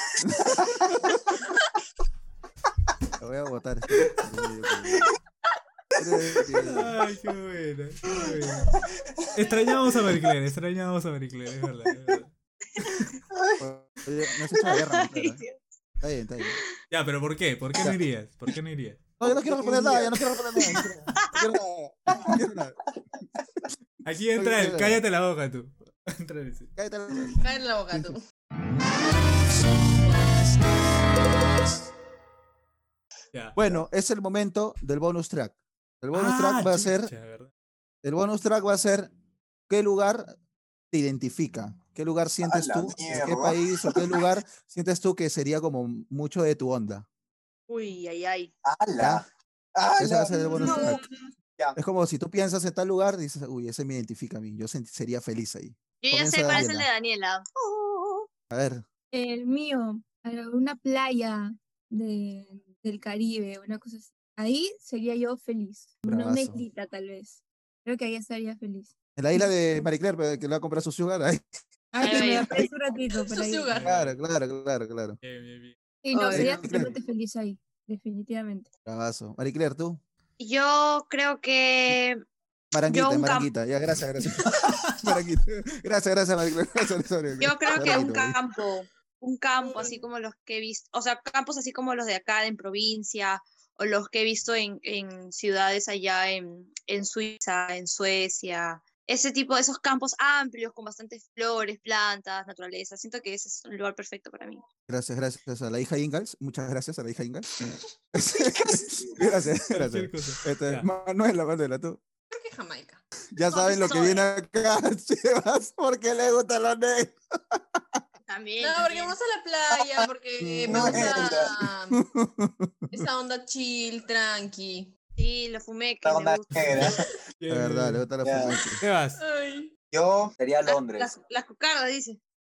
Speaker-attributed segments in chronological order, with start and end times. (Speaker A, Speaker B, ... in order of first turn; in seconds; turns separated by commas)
Speaker A: 0.2-1.1, Speaker A: 3.2-5.1, Speaker A: 6.0-6.9, Speaker B: 6.5-8.7, Speaker B: 9.3-12.3, Speaker A: 13.6-15.4, Speaker C: 14.5-15.6, Speaker A: 16.0-16.6, Speaker B: 16.9-19.1, Speaker A: 19.2-22.8, Speaker D: 19.2-20.1, Speaker C: 20.7-21.4, Speaker B: 24.0-26.7, Speaker A: 24.4-25.0, Speaker A: 26.8-28.1, Speaker E: 27.4-28.2, Speaker A: 33.5-37.1, Speaker B: 36.1-37.5, Speaker A: 38.0-39.1, Speaker A: 39.7-40.3, Speaker A: 40.9-47.0, Speaker D: 42.4-44.2, Speaker C: 47.7-48.5, Speaker D: 48.6-49.2, Speaker A: 49.0-49.2, Speaker D: 49.8-51.0, Speaker A: 50.0-51.0, Speaker C: 50.4-51.1, Speaker A: 51.8-56.9, Speaker C: 56.0-58.2, Speaker A: 58.5-58.8, Speaker F: 59.1-69.5, Speaker A: 66.0-66.6, Speaker A: 69.2-71.4, Speaker F: 71.9-73.7, Speaker C: 72.0-72.7, Speaker E: 73.2-73.9, Speaker B: 73.7-74.2, Speaker A: 73.8-75.2, Speaker B: 75.2-75.8, Speaker F: 76.0-78.7, Speaker C: 76.1-76.6, Speaker A: 76.3-76.9, Speaker A: 78.8-80.0, Speaker C: 80.4-82.2, Speaker A: 82.7-88.4, Speaker C: 82.9-83.5, Speaker C: 87.4-104.6, Speaker A: 104.9-112.0, Speaker D: 108.6-109.2, Speaker B: 109.7-110.9, Speaker E: 112.3-113.0, Speaker A: 113.3-118.0, Speaker C: 113.4-114.2, Speaker C: 118.3-119.2, Speaker E: 118.6-122.0, Speaker D: 119.7-120.1, Speaker A: 120.4-121.3, Speaker D: 120.7-121.7, Speaker A: 121.9-123.0, Speaker E: 122.9-124.9, Speaker C: 125.2-126.5, Speaker D: 126.0-127.1, Speaker B: 126.6-128.1, Speaker A: 127.5-128.8, Speaker D: 128.2-128.6, Speaker B: 128.8-129.2, Speaker E: 129.2-129.7, Speaker D: 129.9-131.1, Speaker C: 130.7-132.2